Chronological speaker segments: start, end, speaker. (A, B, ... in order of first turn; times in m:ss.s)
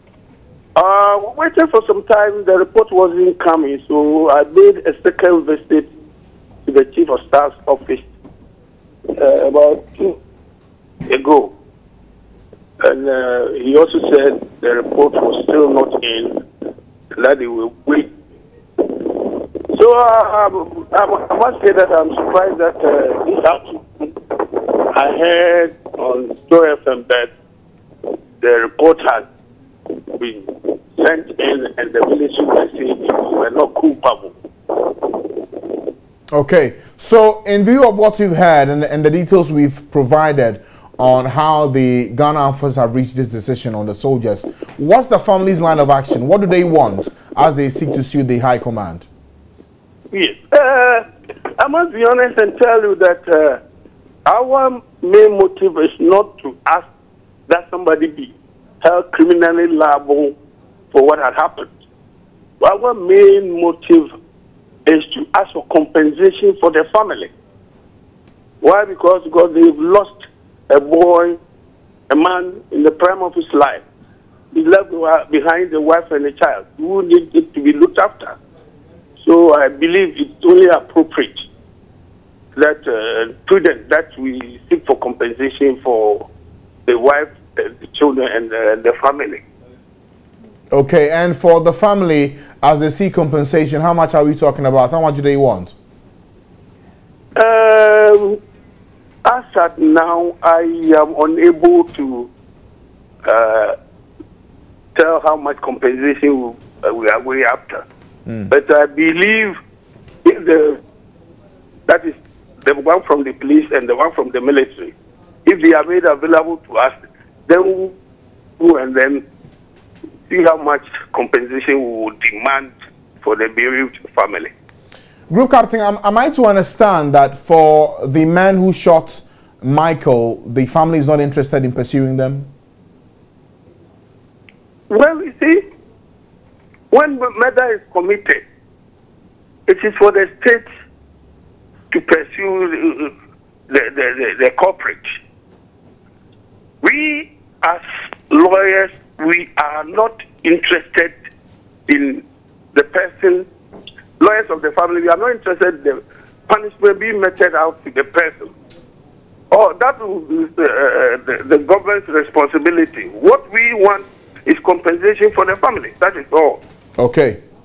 0:00.8-0:05.9 A
0:06.7-0:08.1 A
0:09.2-0:10.2 A
0:11.1-0:11.5 A
0:12.8-0:16.4 A
0:17.2-0:18.1 A
0:18.8-0:27.3 A
0:28.4-0:29.2 A
0:30.2-0:35.3 A
0:36.3-0:49.1 B
0:50.1-0:51.0 A
0:51.6-0:53.6 A
0:54.3-0:56.9 A
0:57.5-1:00.4 A
1:00.9-1:01.7 A
1:02.6-1:04.1 A
1:04.9-1:07.3 A
1:08.6-1:10.1 A
1:10.7-1:11.4 A
1:12.1-1:13.8 A
1:14.5-1:18.4 A
1:19.2-1:21.4 A
1:22.6-1:26.3 A
1:26.9-1:29.4 A
1:30.7-1:35.7 B
1:37.4-1:38.4 A
1:39.2-1:42.3 A
1:43.3-1:43.7 A
1:45.0-1:47.8 A
1:48.5-1:49.6 A
1:50.2-1:50.8 A
1:51.9-1:54.9 A
1:55.5-1:57.9 A
1:58.6-1:59.2 A
2:00.3-2:04.5 A
2:05.3-2:12.5 B
2:14.9-2:15.6 A
2:16.9-2:18.4 A
2:19.7-2:20.6 A
2:21.9-2:23.1 A
2:23.7-2:25.0 A
2:26.8-2:31.1 A
2:31.9-2:33.5 A
2:34.2-2:38.5 A
2:39.5-2:46.6 A
2:47.0-2:47.4 B